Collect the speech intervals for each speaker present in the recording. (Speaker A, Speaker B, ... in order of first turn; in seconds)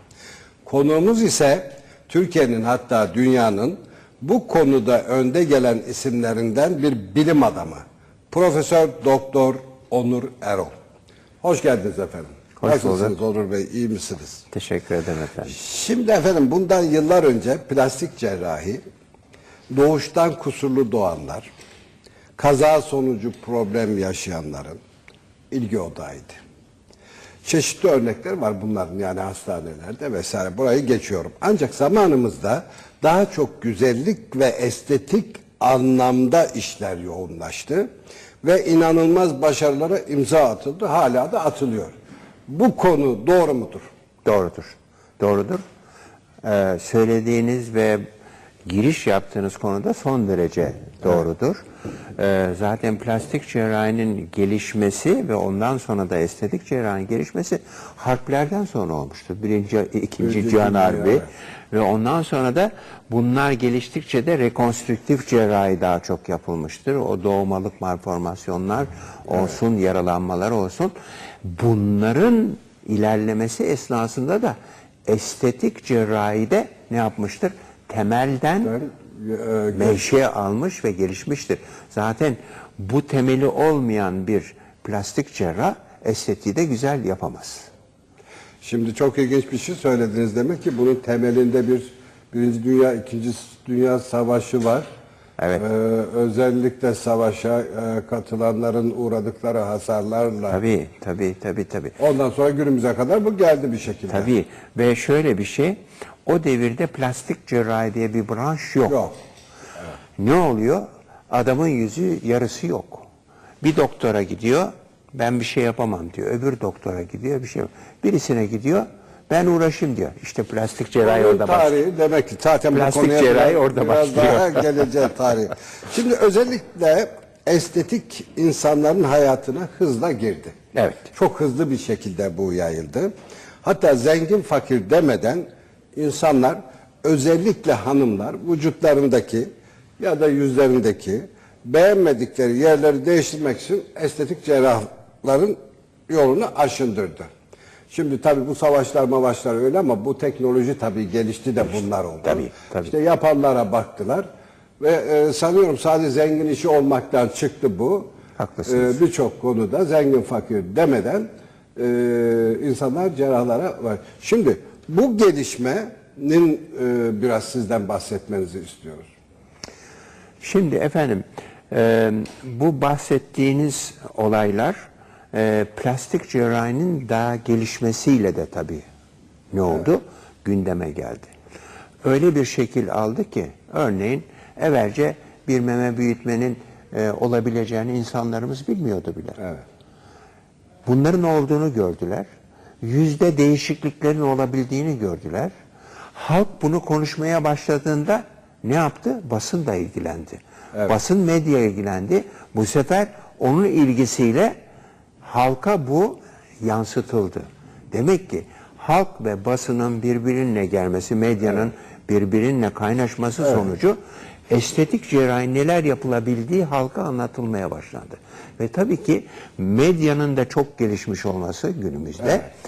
Speaker A: 0.6-10.7, 11.4-14.4, 15.5-18.8, 19.7-21.5, 22.4-24.8, 25.5-26.4, 27.4-37.9, 38.4-41.9, 42.5-43.9, 60.2-61.3, 78.6-80.0, 88.6-94.8, 95.5-100.6, 102.0-104.3, 108.8-109.1, 121.0-130.5, 131.1-133.1, 133.6-145.6, 146.1-147.3, 147.9-154.2, 154.8-158.1, 158.7-169.1
Speaker B: 12.6-13.2, 14.5-15.6, 44.2-45.6, 46.4-48.0, 48.7-51.6, 52.2-74.5, 75.1-78.8, 79.7-87.7, 95.4-95.6, 100.5-101.9, 104.1-109.1, 110.2-113.0, 113.6-121.8, 122.7-124.9, 130.8-131.1, 152.2-152.9, 158.4-159.0, 170.4-174.8, 175.3-178.8, 179.5-181.3, 182.0-189.4, 190.8-192.2, 192.8-195.5, 196.1-204.5, 205.2-213.9, 214.5-222.5